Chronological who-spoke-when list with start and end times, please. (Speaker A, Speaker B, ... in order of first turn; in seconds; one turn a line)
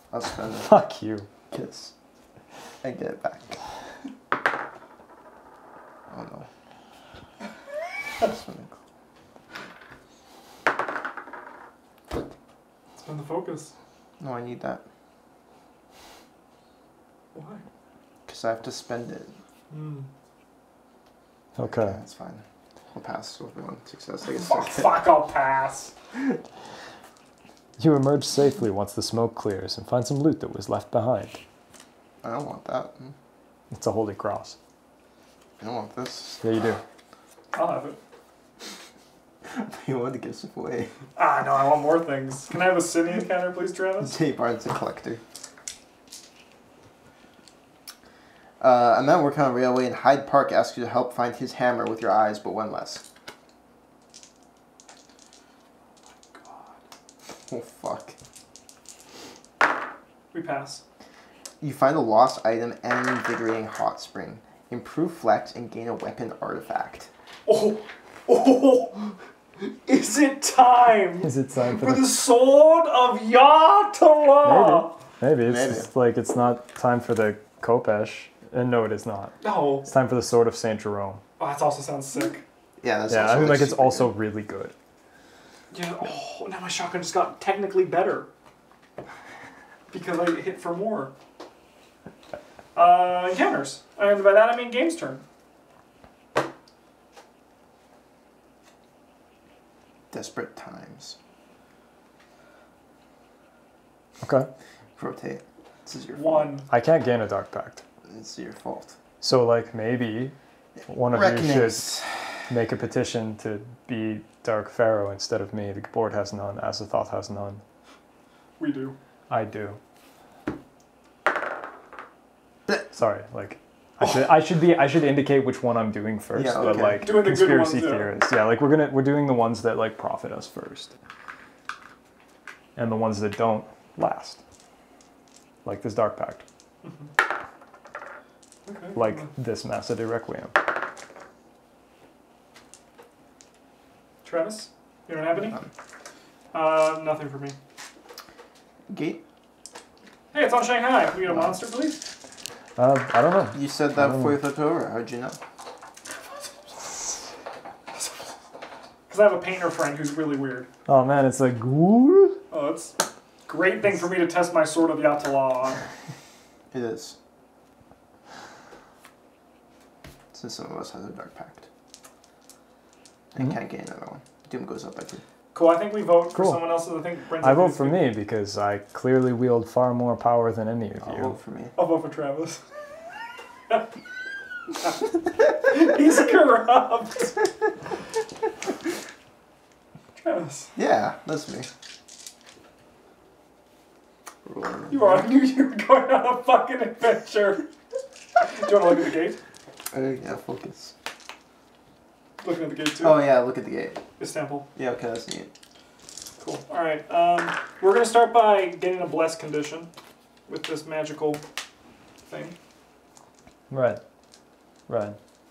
Speaker A: 0.1-0.7
Speaker B: 0.6-1.3
Speaker A: 1.5-1.9
Speaker A: 2.8-3.6
Speaker A: 6.1-6.5
Speaker A: 8.2-8.7
Speaker C: 13.0-13.7
Speaker A: 14.2-14.8
Speaker C: 17.3-17.6
Speaker A: 18.3-19.4
Speaker C: 19.7-20.1
Speaker B: 21.6-22.0
Speaker A: 21.8-25.0
Speaker C: 24.3-25.9
Speaker B: 27.8-31.4
Speaker A: 32.2-33.1
Speaker B: 33.7-34.5
Speaker A: 35.6-36.4
Speaker B: 36.4-36.8
Speaker C: 37.5-38.0
Speaker A: 39.5-40.9
Speaker C: 41.1-44.1
Speaker A: 44.0-45.2
Speaker A: 48.6-53.0
Speaker C: 56.3-56.7
Speaker A: 57.5-58.1
Speaker C: 60.3-60.8
Speaker A: 61.6-67.1
Speaker C: 67.5-75.0
Speaker B: 71.2-72.2
Speaker B: 74.4-81.2
Speaker A: 75.4-75.9
Speaker C: 79.4-79.9
Speaker C: 81.4-82.4
Speaker A: 82.8-84.1
Speaker B: 83.1-84.7
Speaker C: 85.7-88.3
Speaker C: 89.9-91.1
Speaker C: 92.7-95.2
Speaker A: 100.1-101.2
Speaker B: 104.2-104.5
Speaker A: 105.0-106.5
Speaker C: 106.2-106.7
Speaker B: 106.7-107.8
Speaker A: 108.0-109.0
Speaker B: 109.2-110.3
Speaker A: 110.8-112.5
Speaker B: 110.9-111.8
Speaker B: 112.5-117.6
Speaker C: 118.6-119.0
Speaker B: 119.3-119.8
Speaker B: 122.9-130.9
Speaker A: 126.3-127.2
Speaker C: 126.8-128.1
Speaker B: 132.8-134.4
Speaker B: 135.6-136.4
Speaker C: 136.8-137.1
Speaker C: 138.7-139.3
Speaker B: 138.9-140.5
Speaker C: 144.2-145.6
Speaker C: 146.5-147.6
Speaker A: 148.9-149.2
Speaker C: 150.3-152.0
Speaker B: 152.8-154.3
Speaker A: 153.5-155.4
Speaker C: 159.1-160.7
Speaker B: 160.8-162.4
Speaker C: 162.5-162.9
Speaker C: 163.5-165.8
Speaker A: 166.7-167.2
Speaker A: 170.3-171.7
Speaker A: 173.3-175.2
Speaker C: 175.5-178.1
Speaker B: 176.3-176.6
Speaker B: 177.4-181.3
Speaker A: 181.0-181.7
Speaker C: 181.8-182.6
Speaker C: 185.6-187.4
Speaker C: 190.2-190.7
Speaker A: 190.7-191.7
Speaker A: 194.4-195.3
Speaker C: 194.9-197.7
Speaker C: 198.4-199.4
Speaker A: 199.9-200.9
Speaker C: 202.4-203.2
Speaker A: 203.0-204.0
Speaker C: 204.2-204.7
Speaker A: 204.7-205.5
Speaker C: 206.4-209.9
Speaker C: 210.5-211.4
Speaker C: 212.3-212.5
Speaker B: 213.7-214.0
Speaker B: 214.9-215.2